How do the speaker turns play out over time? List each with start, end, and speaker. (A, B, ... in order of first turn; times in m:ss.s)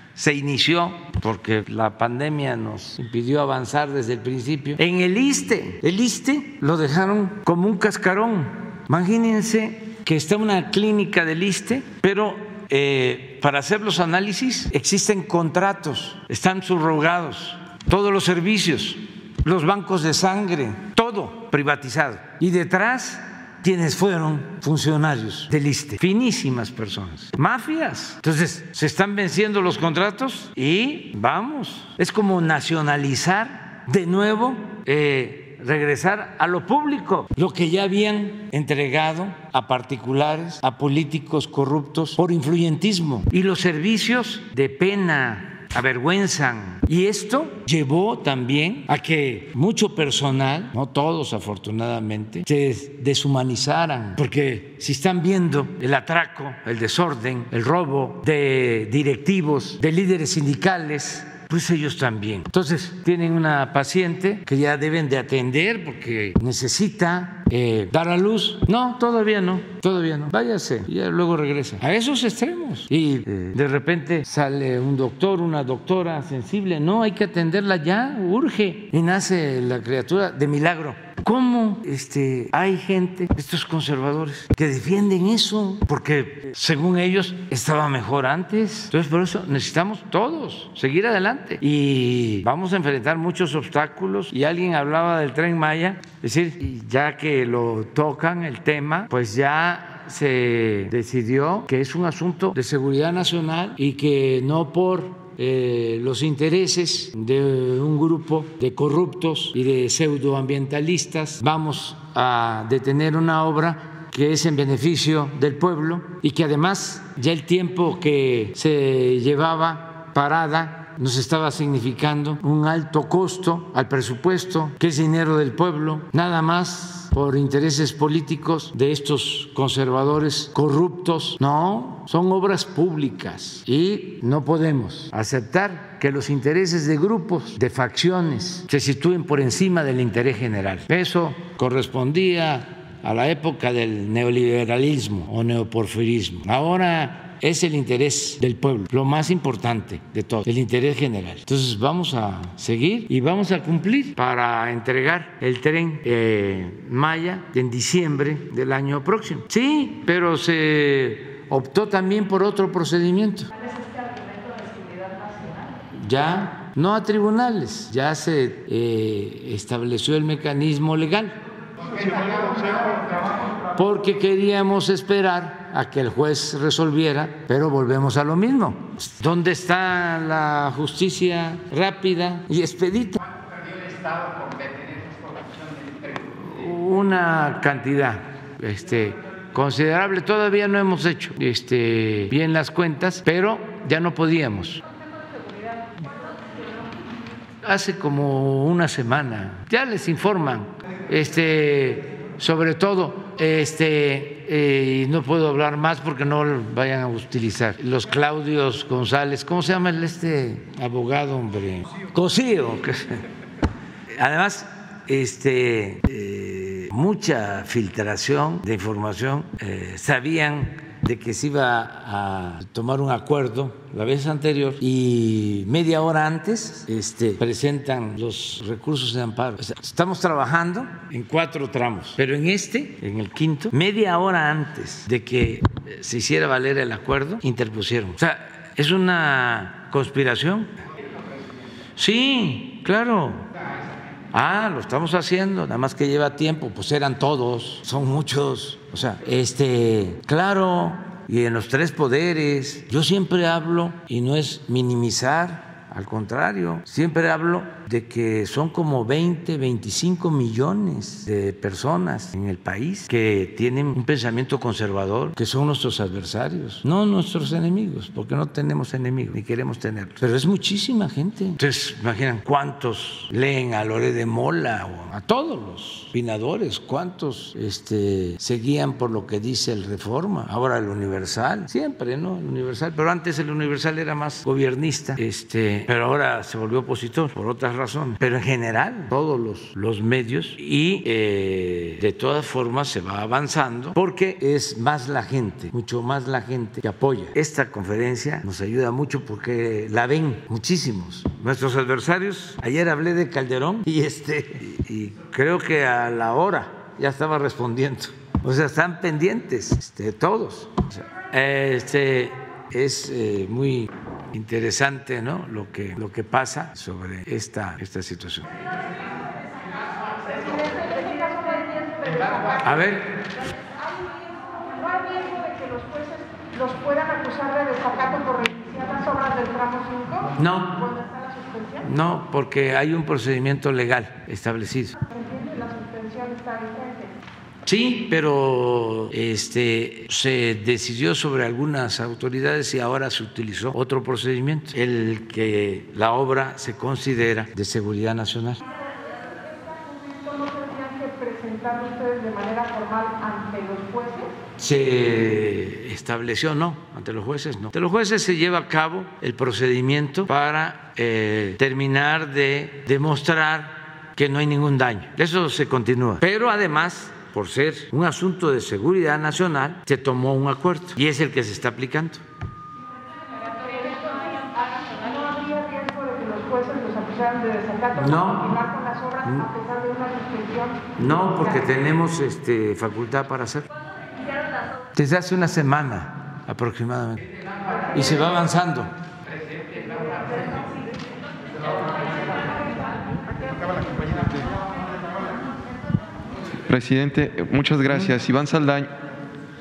0:00.2-2:43.5 A
2:43.5-2:45.8 B
2:45.9-2:51.4 A
2:52.0-2:53.0 A
2:53.7-3:03.2 A
3:06.2-3:14.8 A
3:17.6-3:33.2 A
3:34.1-4:00.7 A
4:02.0-4:03.5 A
4:04.3-5:18.5 A
5:20.1-5:22.8 B
5:22.6-5:23.2 A
5:23.7-5:31.9 B
5:30.3-5:30.8 A
5:31.8-5:35.0 A
5:35.0-5:37.2 B
5:37.6-5:48.6 A
5:48.7-5:54.3 B
5:54.6-6:12.2 A
6:13.4-6:21.6 B
6:17.9-6:18.6 A
6:19.2-6:19.5 A
6:21.0-6:23.7 A
6:24.9-6:27.3 A
6:27.9-6:28.9 A
6:29.8-6:30.9 B
6:31.8-6:34.6 B
6:36.7-6:38.9 C